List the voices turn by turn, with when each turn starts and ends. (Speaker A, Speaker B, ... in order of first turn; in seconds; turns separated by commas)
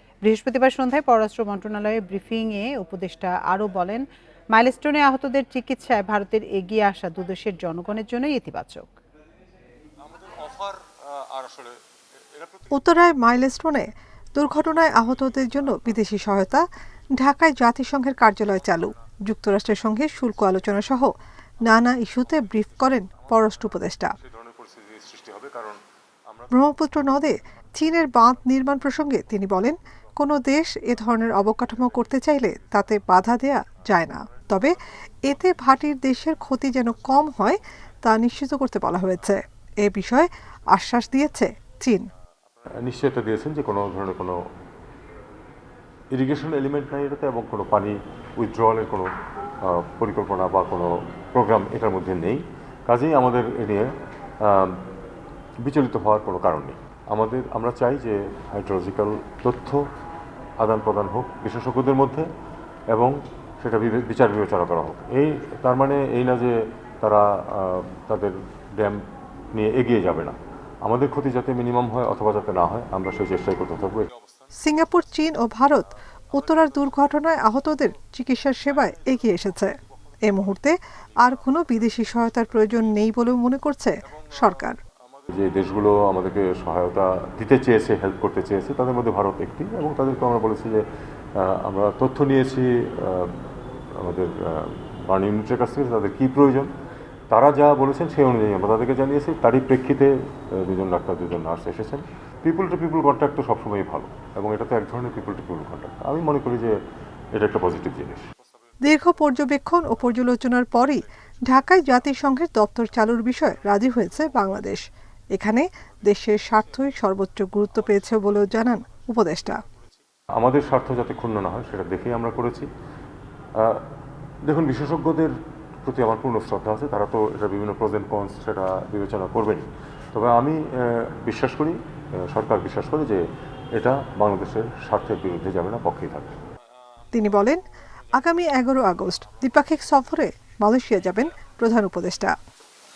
Speaker A: 0.2-8.9, Speaker B: 10.1-11.8, Speaker B: 12.4-12.7, Speaker C: 12.7-16.6, Speaker C: 17.2-21.1, Speaker C: 21.7-24.2, Speaker B: 24.2-26.5, Speaker C: 26.5-42.0, Speaker B: 42.8-44.4, Speaker B: 46.1-54.8, Speaker B: 55.6-59.9, Speaker B: 60.6-62.3, Speaker B: 62.9-69.0, Speaker B: 69.5-74.1, Speaker C: 74.6-84.8, Speaker B: 85.3-90.8, Speaker B: 91.4-93.4, Speaker B: 94.0-96.7, Speaker B: 97.3-106.8, Speaker B: 107.3-108.3, Speaker C: 108.8-119.6, Speaker B: 120.4-122.7, Speaker B: 123.5-123.9, Speaker B: 124.4-136.4, Speaker C: 137.1-137.6, Speaker C: 138.1-142.3